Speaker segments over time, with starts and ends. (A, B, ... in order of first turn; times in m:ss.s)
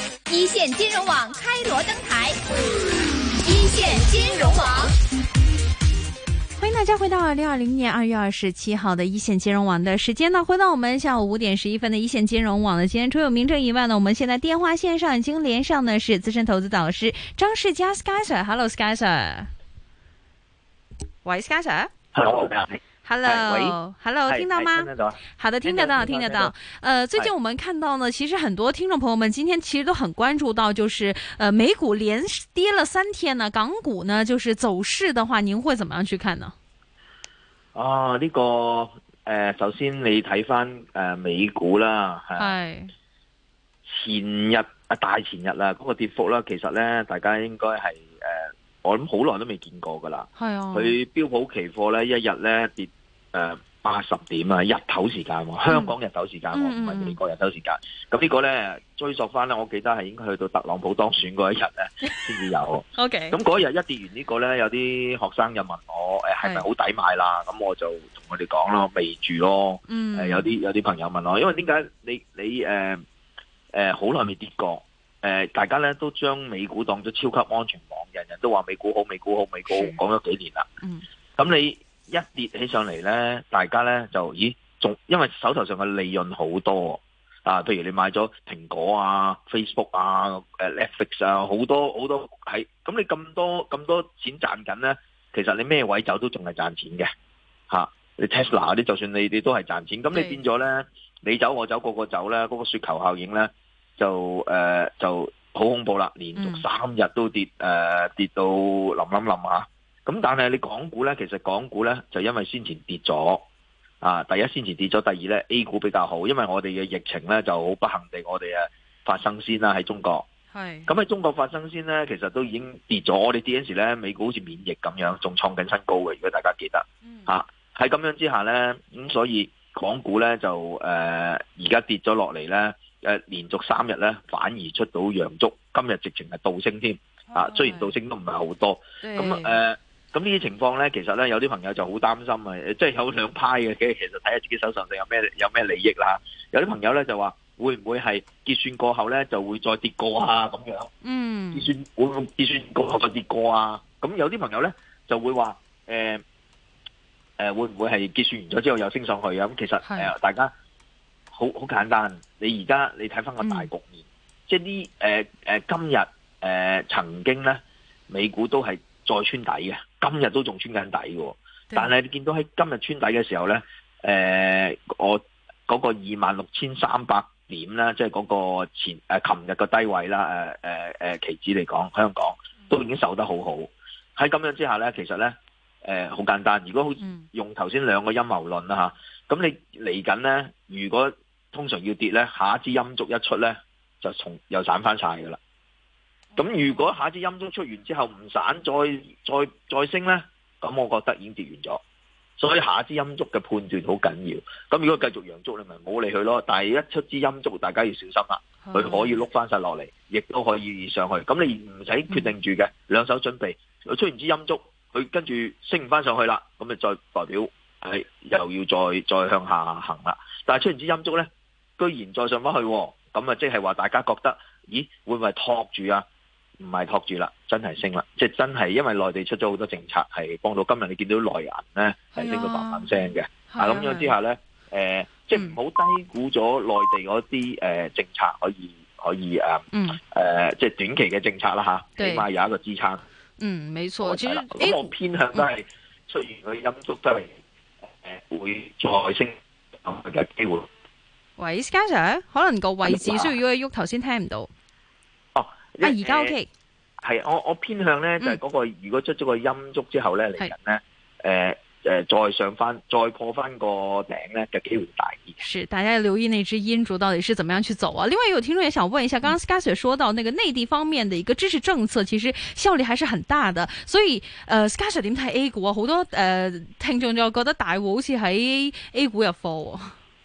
0:00.3-0:02.4 A
0:03.4-0:04.9 A
0:06.6-0:19.5 B
0:21.2-0:21.9 B
0:22.1-0:26.6 C
0:23.0-0:36.5 B
0:37.7-0:42.5 C
0:42.4-0:42.9 B
0:43.8-1:13.0 C
0:50.4-0:51.0 B
0:55.7-0:56.0 B
0:56.5-0:57.2 B
1:03.0-1:03.4 B
1:06.4-1:06.7 B
1:09.9-1:10.5 B
1:13.7-1:20.7 C
1:19.7-1:20.0 B
1:21.4-1:37.1 C
1:37.7-1:53.4 C
1:40.1-1:40.4 B
1:46.3-1:46.6 B
1:54.0-2:00.2 C
2:00.5-2:00.9 B
2:00.9-2:30.9 C
2:07.1-2:07.3 B
2:17.3-2:17.9 B
2:19.0-2:19.6 B
2:31.0-2:31.7 B
2:31.5-2:36.2 C
2:37.4-2:40.5 C
2:39.8-2:40.1 B
2:41.3-3:15.4 C
2:43.4-2:43.7 B
3:07.0-3:07.3 B
3:16.3-3:17.0 B
3:16.4-3:21.8 C
3:22.4-3:46.0 C
3:28.6-3:29.2 B
3:46.6-4:03.0 C
3:52.2-3:52.9 B
3:53.5-3:54.2 B
3:55.3-3:55.6 B
3:59.7-4:00.0 B
4:02.0-4:02.3 B
4:03.4-4:05.5 B
4:04.0-4:07.4 C
4:08.0-4:10.7 C
4:11.4-4:14.5 B
4:12.8-4:13.4 C
4:15.4-4:16.4 C
4:15.8-4:16.5 B
4:17.0-4:25.4 C
4:25.4-4:39.9 B